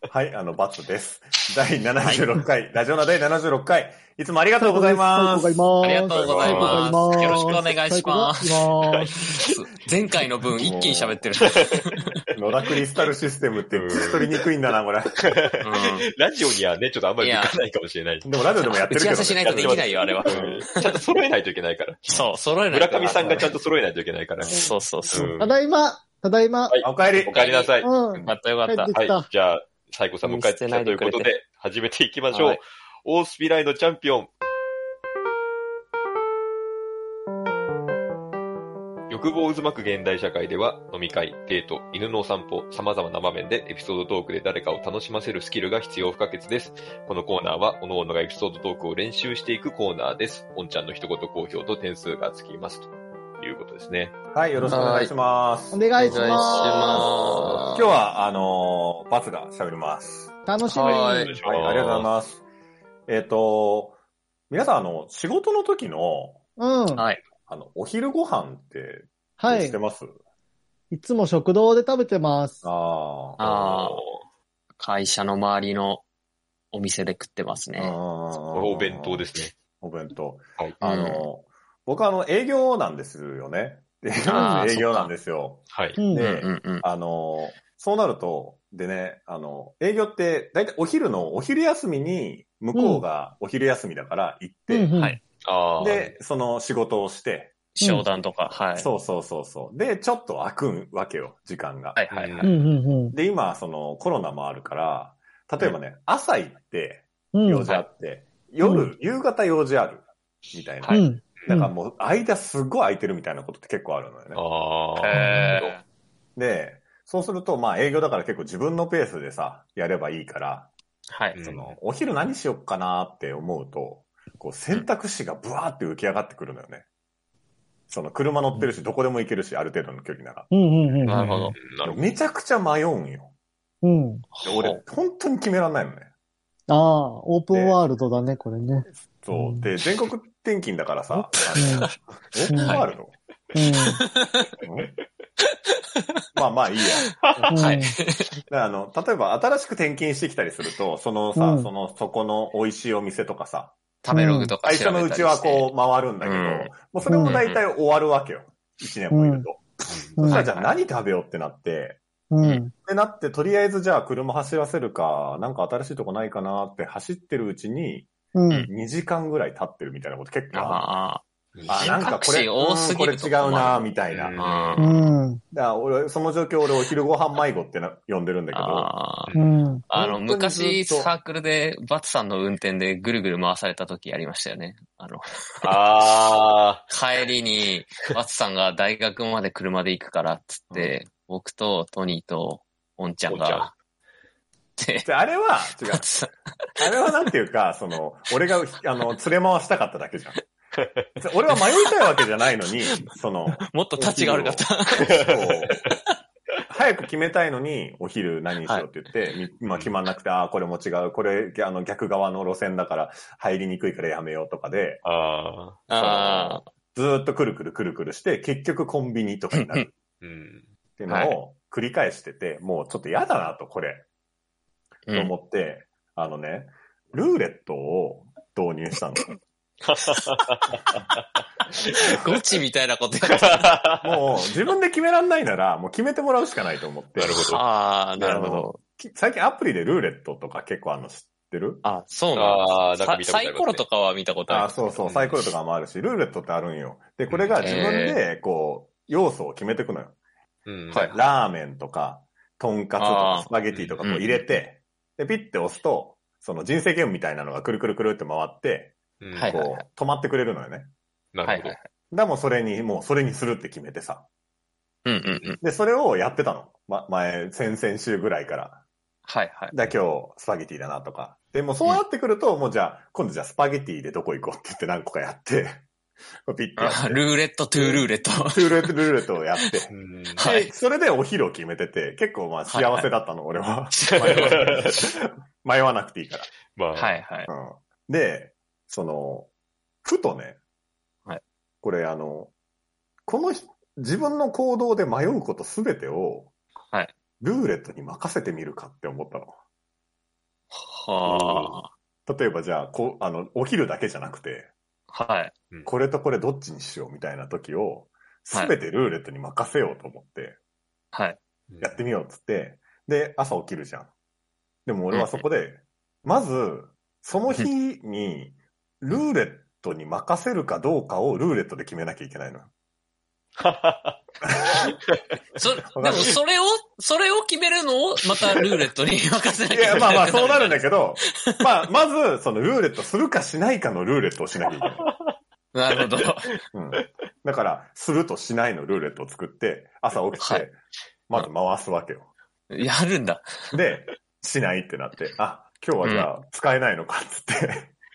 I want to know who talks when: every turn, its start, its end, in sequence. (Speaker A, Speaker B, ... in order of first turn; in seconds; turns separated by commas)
Speaker A: 0.1-5.6, Speaker B: 4.6-9.2, Speaker C: 5.8-12.2, Speaker D: 6.1-7.5, Speaker A: 10.0-11.2, Speaker A: 12.3-15.2, Speaker D: 13.7-14.4, Speaker D: 15.2-15.6, Speaker C: 15.6-16.1, Speaker D: 16.1-24.6, Speaker C: 17.2-17.6, Speaker A: 18.2-20.6, Speaker C: 18.7-20.7, Speaker C: 22.1-23.5, Speaker A: 23.0-23.5, Speaker B: 24.5-26.8, Speaker C: 24.5-25.3, Speaker D: 25.1-25.6, Speaker D: 26.7-27.9, Speaker A: 26.8-27.4, Speaker C: 27.3-28.9, Speaker B: 27.8-29.3, Speaker D: 28.9-34.3, Speaker C: 30.2-31.3, Speaker C: 32.3-32.6, Speaker D: 39.1-54.1, Speaker A: 54.3-55.9, Speaker C: 54.6-55.1, Speaker B: 55.7-57.1, Speaker D: 56.0-57.2, Speaker C: 56.0-57.9, Speaker A: 57.7-60.3, Speaker B: 60.5-61.1, Speaker D: 60.7-62.1, Speaker C: 60.8-61.4, Speaker A: 61.4-62.4, Speaker A: 63.1-64.0, Speaker A: 64.5-66.4, Speaker B: 66.6-67.0, Speaker C: 67.0-67.2, Speaker A: 67.5-70.1, Speaker B: 69.4-69.8, Speaker B: 70.9-72.7, Speaker A: 72.6-73.4, Speaker C: 73.4-74.0, Speaker D: 73.4-74.2, Speaker C: 74.8-76.0, Speaker C: 76.7-78.0, Speaker A: 77.8-79.3, Speaker D: 78.5-79.5, Speaker A: 79.8-94.9, Speaker C: 80.8-81.2, Speaker C: 84.3-85.1, Speaker B: 84.3-84.7, Speaker D: 85.7-86.0, Speaker B: 86.0-86.3, Speaker C: 86.2-86.8, Speaker B: 92.8-93.0, Speaker B: 94.7-95.2, Speaker C: 95.0-95.2, Speaker D: 95.4-96.1, Speaker A: 95.8-97.5, Speaker C: 97.8-98.9, Speaker B: 97.8-98.1, Speaker A: 98.8-102.0, Speaker C: 102.0-102.5, Speaker D: 102.1-102.5, Speaker B: 102.4-103.2, Speaker A: 103.1-114.4, Speaker B: 107.3-107.7, Speaker B: 108.6-108.9, Speaker D: 110.8-111.5, Speaker B: 110.9-111.7, Speaker D: 114.3-115.7, Speaker C: 115.0-115.8, Speaker B: 115.1-115.6, Speaker A: 116.4-120.7, Speaker C: 121.1-121.5, Speaker D: 121.4-121.8, Speaker A: 121.4-126.8, Speaker A: 127.9-130.5, Speaker B: 130.5-131.3, Speaker C: 131.1-131.6, Speaker D: 131.2-132.0, Speaker A: 131.8-133.3, Speaker B: 133.8-134.3, Speaker C: 134.4-134.8, Speaker A: 134.4-136.1, Speaker B: 136.7-139.7, Speaker A: 137.5-137.8, Speaker A: 139.2-143.2, Speaker C: 141.1-141.9, Speaker B: 141.6-141.9, Speaker B: 142.5-142.8, Speaker C: 142.6-142.9, Speaker B: 143.5-144.0, Speaker C: 144.1-144.5, Speaker A: 144.6-144.9, Speaker A: 146.3-147.5, Speaker B: 147.5-148.0, Speaker C: 147.6-148.4, Speaker A: 148.5-153.8, Speaker B: 151.4-151.7, Speaker C: 154.0-157.6, Speaker B: 154.1-154.5, Speaker A: 154.6-162.0, Speaker B: 157.1-157.4, Speaker B: 159.1-159.5, Speaker D: 159.9-160.4, Speaker B: 160.2-160.5, Speaker C: 160.3-160.8, Speaker B: 162.3-162.7, Speaker A: 162.8-168.1, Speaker B: 168.3-168.7, Speaker A: 168.7-170.9, Speaker C: 170.5-174.9, Speaker D: 171.6-171.9, Speaker A: 171.7-174.4, Speaker D: 174.1-175.1, Speaker B: 174.8-175.4, Speaker A: 175.5-178.9, Speaker C: 178.5-185.7, Speaker B: 179.3-179.8, Speaker A: 179.9-181.1, Speaker D: 185.6-186.8, Speaker C: 186.9-193.7, Speaker A: 190.7-191.0, Speaker D: 193.3-193.7, Speaker C: 194.8-195.1, Speaker A: 195.1-196.1, Speaker C: 195.7-196.8, Speaker A: 196.8-200.4, Speaker D: 200.8-201.1, Speaker A: 201.2-205.8, Speaker C: 203.7-205.3, Speaker D: 205.2-205.7, Speaker A: 206.7-215.0, Speaker C: 208.6-208.9, Speaker D: 209.7-209.9, Speaker D: 215.0-215.9, Speaker C: 215.9-216.7, Speaker A: 216.0-219.9, Speaker C: 219.5-219.9, Speaker D: 220.2-220.7, Speaker A: 221.0-224.1, Speaker C: 221.1-221.4, Speaker C: 225.1-225.3, Speaker A: 225.1-229.4, Speaker D: 229.9-231.2, Speaker C: 232.0-233.7, Speaker D: 233.3-234.0, Speaker A: 234.0-237.4, Speaker D: 237.2-237.6, Speaker C: 237.3-238.8, Speaker A: 238.2-241.9, Speaker C: 241.8-245.4, Speaker D: 242.3-243.8, Speaker A: 244.5-250.2, Speaker D: 247.3-247.8, Speaker C: 247.6-248.2, Speaker D: 250.7-251.1, Speaker C: 250.9-251.2, Speaker A: 251.0-260.9, Speaker C: 253.0-253.5, Speaker C: 254.0-254.5, Speaker D: 259.2-259.5, Speaker C: 259.4-259.8, Speaker D: 261.3-261.8, Speaker C: 261.4-261.9, Speaker A: 262.1-264.3, Speaker C: 265.1-265.6, Speaker D: 265.3-265.6, Speaker A: 265.6-268.8, Speaker C: 269.3-269.8, Speaker A: 269.7-275.8, Speaker A: 276.5-277.2, Speaker C: 276.8-278.9, Speaker A: 277.8-286.5, Speaker D: 279.9-280.5, Speaker C: 280.4-280.7, Speaker C: 282.7-283.1, Speaker D: 284.1-284.9, Speaker C: 284.1-285.0, Speaker D: 286.8-287.2, Speaker C: 286.9-287.5, Speaker A: 287.5-289.5, Speaker A: 290.1-290.6, Speaker A: 291.8-292.5, Speaker A: 293.3-296.5, Speaker A: 297.4-299.6, Speaker C: 300.7-301.9, Speaker D: 301.2-301.8, Speaker A: 302.3-304.7, Speaker C: 305.1-305.5, Speaker A: 305.9-310.6, Speaker C: 308.5-308.8, Speaker C: 311.1-311.4, Speaker D: 311.7-312.0, Speaker A: 311.8-314.1, Speaker A: 314.9-322.7, Speaker C: 315.1-315.4, Speaker D: 323.6-324.2, Speaker C: 325.6-330.9, Speaker A: 325.9-326.4, Speaker A: 329.7-335.1, Speaker D: 335.0-335.4, Speaker C: 335.7-336.5, Speaker A: 336.7-342.3, Speaker C: 340.4-340.7, Speaker C: 342.7-343.8, Speaker A: 343.7-347.9, Speaker C: 346.0-346.3